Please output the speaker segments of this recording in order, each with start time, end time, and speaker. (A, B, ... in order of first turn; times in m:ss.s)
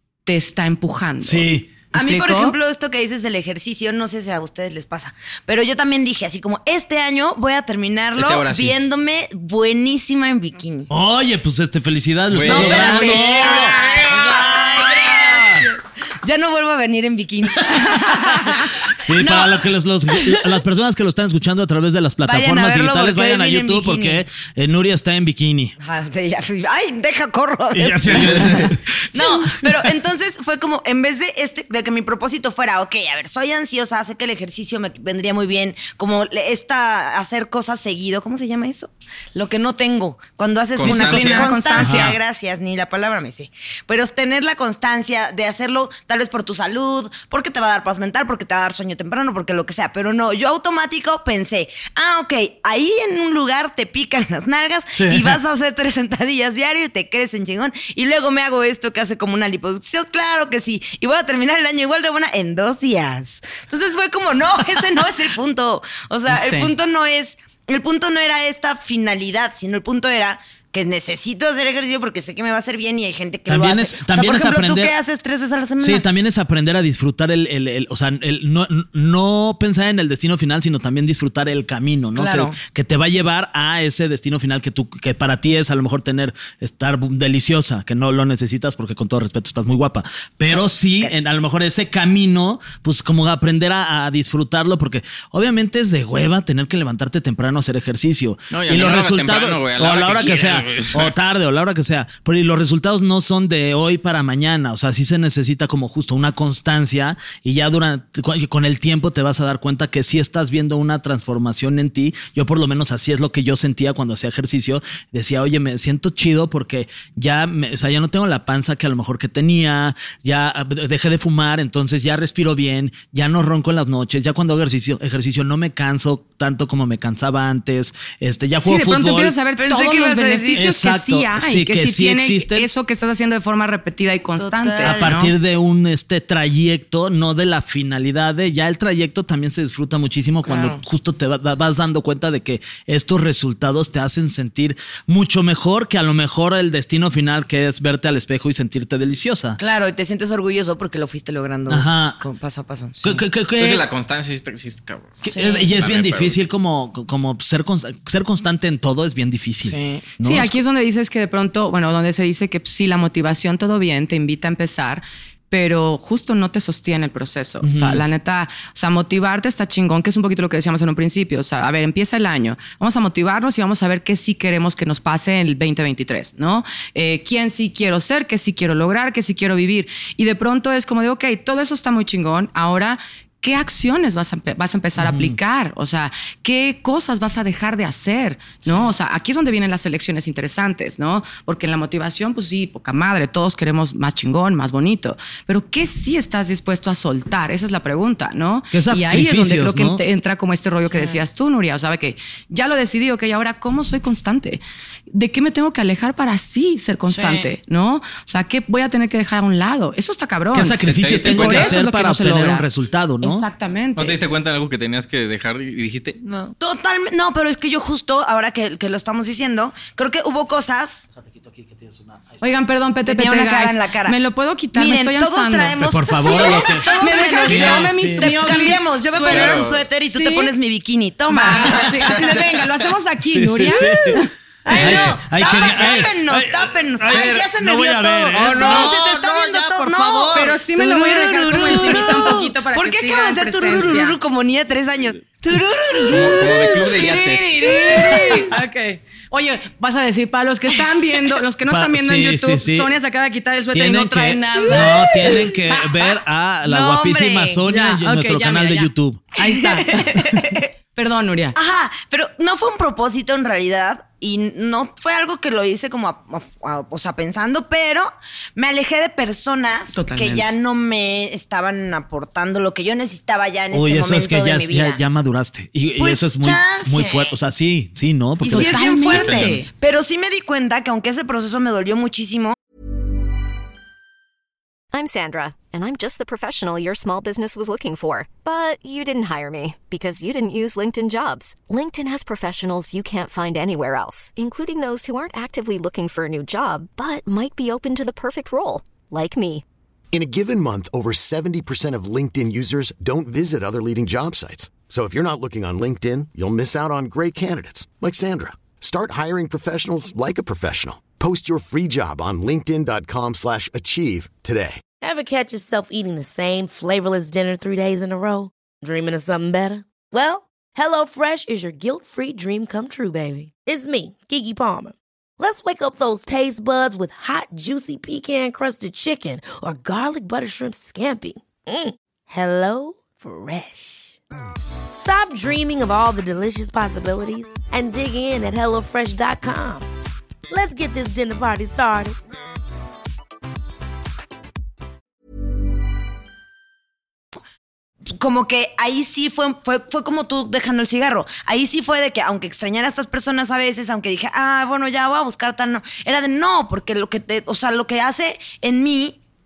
0:00.2-0:02.6 A
0:01.2-0:01.7 B
0:01.9-0:10.9 C
0:08.2-0:08.7 D
0:10.9-0:13.8 B
0:12.3-0:15.6 D
0:12.4-0:19.6 C
0:15.3-0:15.6 B
0:19.0-0:25.8 B
0:22.2-0:24.2 C
0:25.8-1:16.0 C
0:27.7-0:29.9 B
0:28.1-0:28.6 D
0:40.8-0:41.5 D
0:40.8-0:42.1 A
0:41.8-0:42.2 B
0:54.9-0:55.4 B
1:06.3-1:06.7 A
1:13.5-1:14.9 B
1:15.8-2:09.4 B
1:22.2-1:22.6 C
1:30.4-1:31.2 C
1:38.5-1:41.1 D
2:08.6-2:15.3 A
2:09.6-2:10.6 C
2:10.5-2:12.7 B
2:14.4-2:15.1 C
2:14.8-2:29.6 B
2:20.4-2:20.8 C
2:29.6-2:33.1 C
2:31.7-2:32.2 B
2:33.0-2:33.8 B
2:33.6-2:36.4 D
2:35.2-2:40.5 B
2:35.3-2:35.7 C
2:39.7-2:40.0 C
2:40.2-3:32.7 A
2:47.6-2:48.0 B
3:05.0-3:05.4 B
3:18.7-3:20.0 B
3:20.9-3:21.2 C
3:27.0-3:27.5 C
3:30.5-3:33.5 B
3:30.9-3:31.8 D
3:33.2-3:34.2 A
3:34.0-3:36.2 D
3:36.2-3:41.1 C
3:41.1-3:42.5 B
3:42.4-3:50.5 A
3:43.0-3:44.2 C
3:44.7-3:52.1 C
3:45.8-3:48.4 B
3:49.2-3:49.8 D
3:51.3-3:54.3 A
3:51.8-3:52.4 D
3:53.2-4:02.3 B
3:54.6-4:08.5 C
3:54.7-3:56.0 D
3:57.1-3:57.4 D
3:58.5-3:58.8 D
3:58.5-3:58.8 A
4:00.3-4:04.2 A
4:06.1-4:07.6 D
4:07.6-4:15.5 A
4:11.7-4:12.9 B
4:13.7-4:19.3 B
4:14.8-4:15.5 C
4:16.6-4:17.6 C
4:17.7-4:20.2 A
4:19.4-4:20.7 C
4:20.9-4:21.6 A
4:21.5-4:35.0 C
4:29.9-4:30.5 A
4:33.7-4:39.6 B
4:36.0-4:37.3 C
4:38.4-4:42.6 C
4:38.4-4:39.7 A
4:44.9-4:59.6 E
5:00.1-5:14.8 F
5:15.0-5:34.2 G
5:35.0-5:39.9 G
5:40.5-5:42.2 G
5:48.0-5:59.2 C